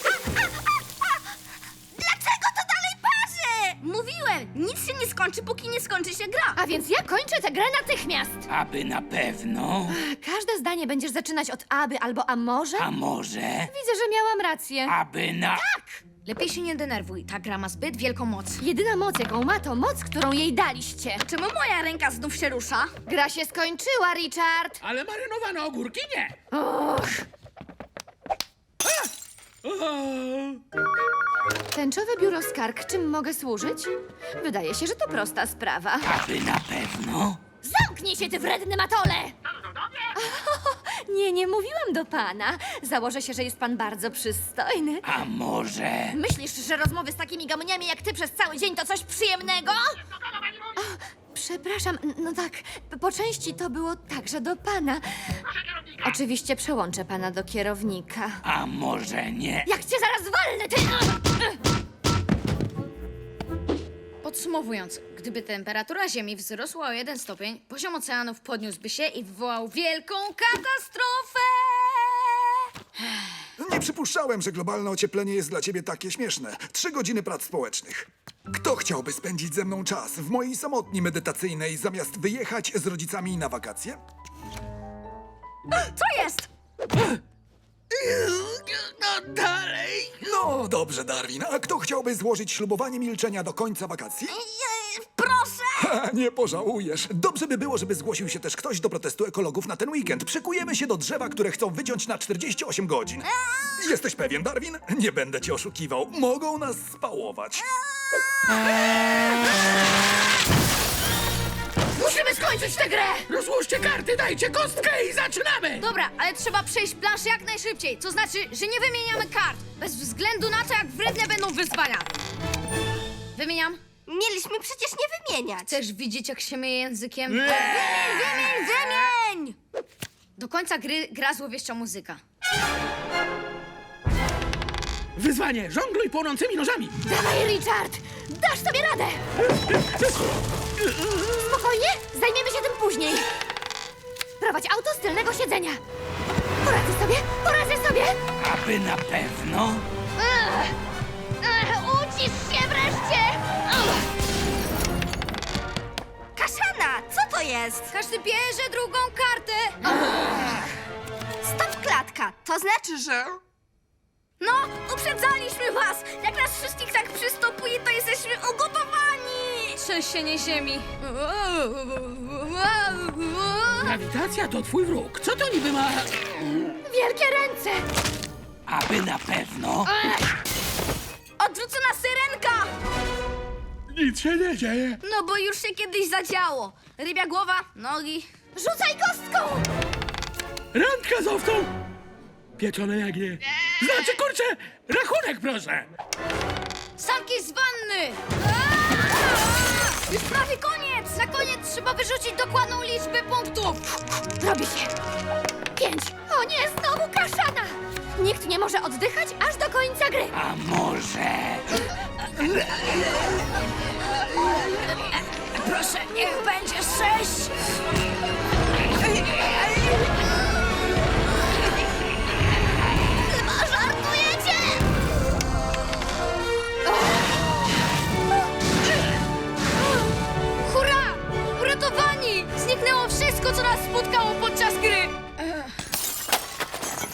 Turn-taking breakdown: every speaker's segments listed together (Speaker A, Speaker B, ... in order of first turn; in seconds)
Speaker A: 2.0-3.8, 94.7-95.1, 124.1-125.8, 128.1-129.6, 156.4-157.9, 161.4-163.4, 168.0-169.8
Speaker B: 3.8-6.6, 16.2-18.6, 21.2-22.9, 64.2-73.3, 85.7-86.5, 95.2-95.7, 115.8-122.1, 123.3-123.8, 125.6-129.2, 130.4-132.2, 157.9-159.8, 164.4-174.0, 181.4-182.7, 185.0-188.3, 197.0-204.0, 223.2-224.8, 230.6-235.7
Speaker C: 6.5-8.4, 9.9-12.9, 13.7-15.0, 15.5-16.0, 18.6-21.2, 23.1-24.8, 26.5-27.2, 31.7-36.1, 37.6-39.3, 40.1-45.1, 46.1-50.0, 50.8-55.0, 56.0-58.4, 59.6-61.6, 112.0-113.2, 137.1-139.2, 141.3-143.3, 144.4-145.8, 146.6-148.2, 150.2-150.8, 151.4-153.9, 176.8-177.8, 179.9-180.2, 188.6-189.7, 204.4-204.9, 205.8-210.4, 215.6-217.5
Speaker D: 8.5-9.9, 12.8-13.7, 14.9-15.6, 36.0-37.4, 45.0-46.1, 58.4-59.7, 148.4-149.8, 178.7-179.9, 210.3-211.8
Speaker E: 24.8-26.3, 29.6-30.6, 87.9-90.1, 112.2-112.7, 113.3-115.9, 127.3-128.5, 135.2-136.9, 173.8-176.2, 183.9-185.0, 190.7-191.7, 192.6-195.9
Speaker F: 73.6-84.0, 90.1-94.4, 95.8-107.7